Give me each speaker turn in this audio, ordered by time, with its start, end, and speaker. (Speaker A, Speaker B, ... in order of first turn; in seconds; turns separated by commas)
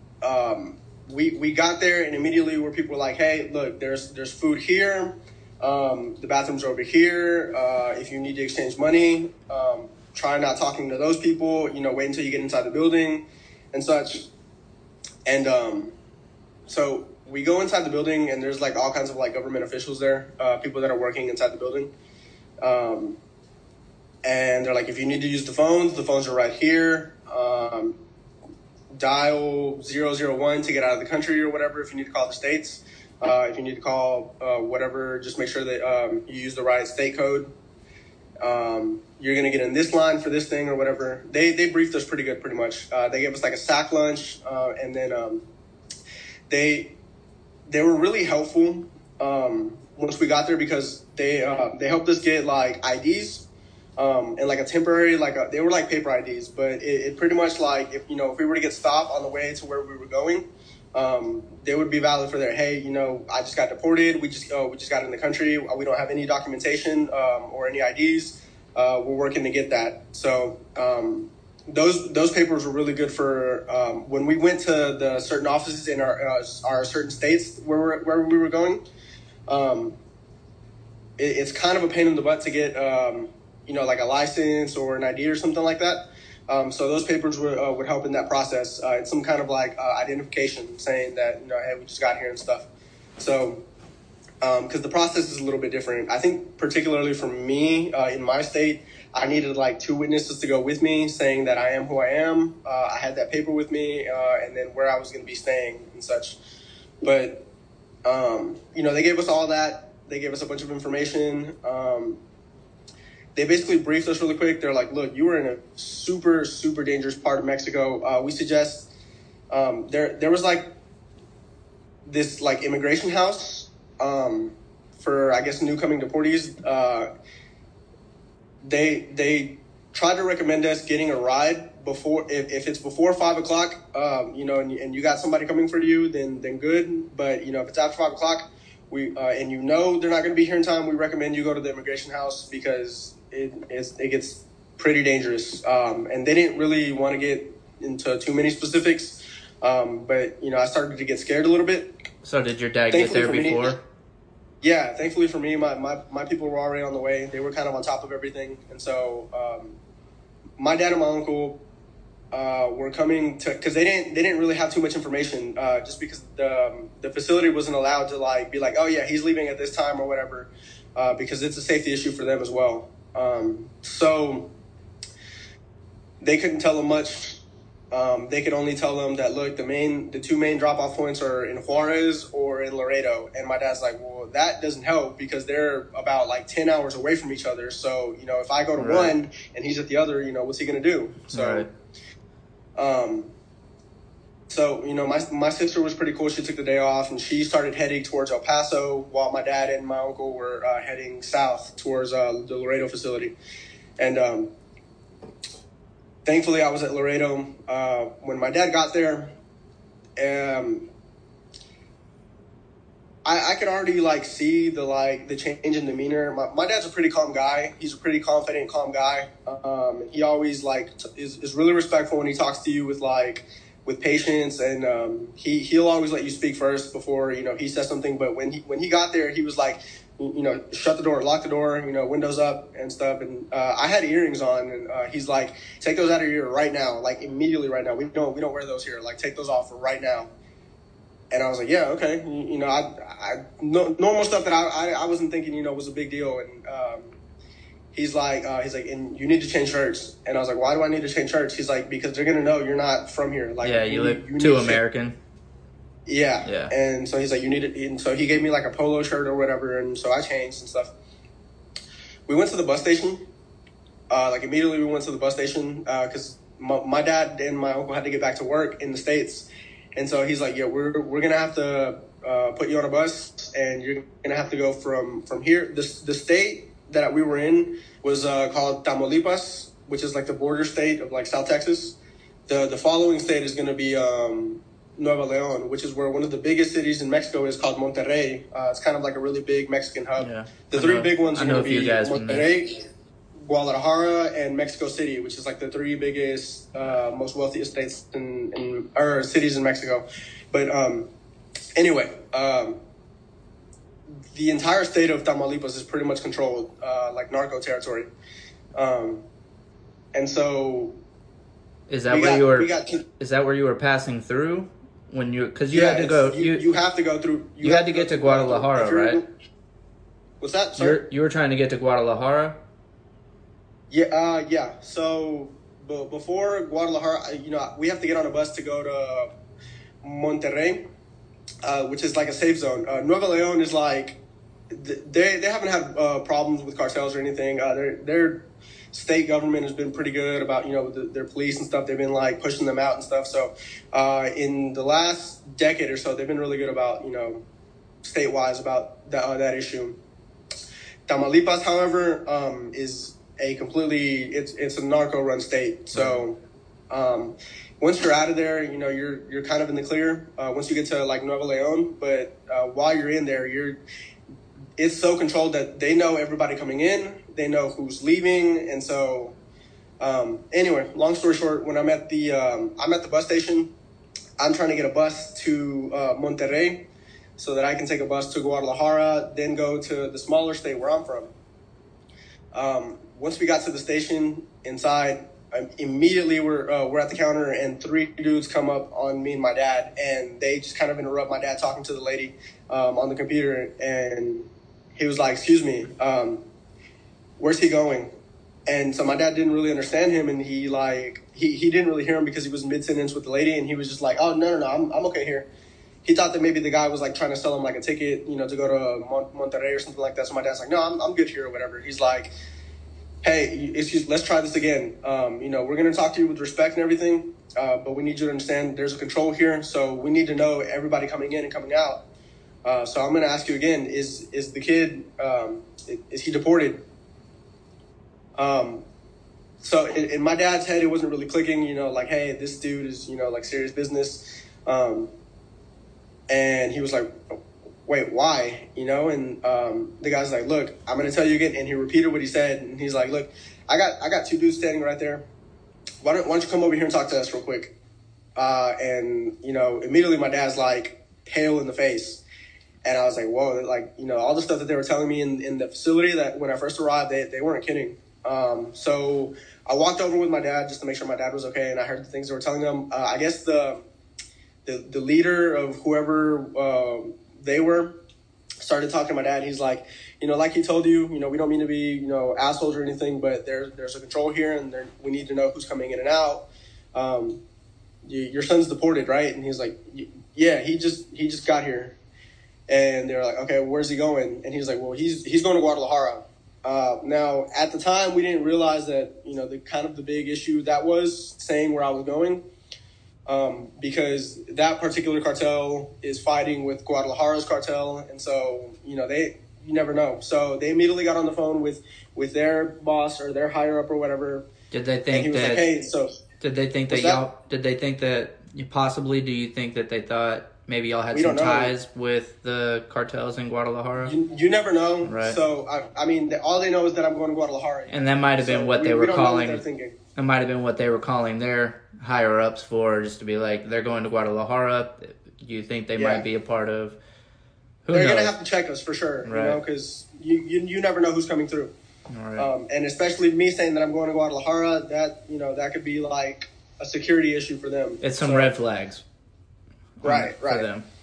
Speaker A: 0.2-14.3, Speaker A: 15.2-15.9, Speaker A: 16.7-21.9, Speaker A: 22.6-23.2, Speaker A: 24.2-28.0, Speaker A: 28.9-37.5, Speaker A: 38.4-45.5, Speaker A: 46.5-47.0, Speaker A: 47.7-78.8, Speaker A: 79.5-80.0, Speaker A: 81.2-92.7, Speaker A: 93.2-93.7, Speaker A: 94.4-106.4, Speaker A: 107.0-107.5, Speaker A: 108.0-112.2, Speaker A: 113.3-118.9, Speaker A: 119.5-120.7, Speaker A: 122.0-127.1, Speaker A: 128.6-151.9, Speaker B: 152.2-153.8, Speaker A: 152.9-153.8, Speaker A: 154.6-159.8, Speaker A: 160.6-161.6, Speaker A: 162.3-174.5, Speaker A: 176.2-191.7, Speaker B: 188.8-189.1, Speaker B: 191.3-191.7, Speaker A: 192.8-193.3, Speaker A: 194.5-203.3, Speaker A: 204.0-204.5, Speaker A: 206.2-209.3, Speaker A: 210.2-210.9, Speaker A: 213.2-240.3, Speaker A: 241.3-247.2, Speaker A: 247.9-254.8, Speaker B: 253.6-255.2, Speaker A: 256.1-260.9, Speaker B: 256.4-256.7, Speaker A: 262.3-263.3, Speaker A: 264.1-282.0, Speaker A: 282.5-301.1, Speaker B: 290.2-292.5, Speaker A: 301.8-302.8, Speaker A: 304.3-308.1, Speaker A: 308.7-309.2, Speaker A: 310.1-311.0, Speaker B: 311.9-316.6, Speaker A: 312.1-313.0, Speaker A: 315.7-319.2, Speaker B: 317.6-319.2, Speaker A: 320.4-321.0, Speaker B: 320.8-322.6, Speaker A: 323.9-329.3, Speaker A: 330.0-330.9, Speaker A: 331.6-347.4, Speaker A: 348.0-350.0, Speaker A: 351.1-363.8, Speaker B: 355.9-356.2, Speaker A: 364.8-369.4, Speaker A: 370.0-373.7, Speaker A: 374.4-381.3, Speaker A: 382.5-396.5, Speaker A: 397.4-398.1, Speaker A: 398.7-405.5, Speaker A: 406.0-412.3, Speaker A: 413.2-422.0, Speaker A: 422.6-426.9, Speaker A: 428.4-428.9, Speaker A: 429.6-435.1, Speaker A: 436.3-445.2, Speaker A: 446.0-447.7, Speaker A: 448.4-452.2, Speaker A: 452.8-463.9, Speaker A: 464.6-468.0, Speaker A: 468.6-477.4, Speaker A: 478.0-482.0, Speaker A: 482.7-492.4, Speaker A: 493.2-504.5, Speaker B: 504.7-505.6, Speaker A: 505.1-506.2, Speaker B: 506.4-514.1, Speaker A: 506.9-507.2, Speaker A: 511.1-511.7, Speaker A: 514.0-520.0, Speaker B: 515.0-515.4, Speaker B: 517.9-519.6, Speaker B: 520.1-527.0, Speaker A: 526.0-526.2, Speaker B: 527.8-528.3, Speaker A: 527.9-531.7, Speaker B: 529.2-529.6, Speaker B: 532.1-532.5, Speaker A: 532.4-538.5, Speaker B: 538.0-539.0, Speaker B: 540.0-540.8, Speaker A: 540.0-540.7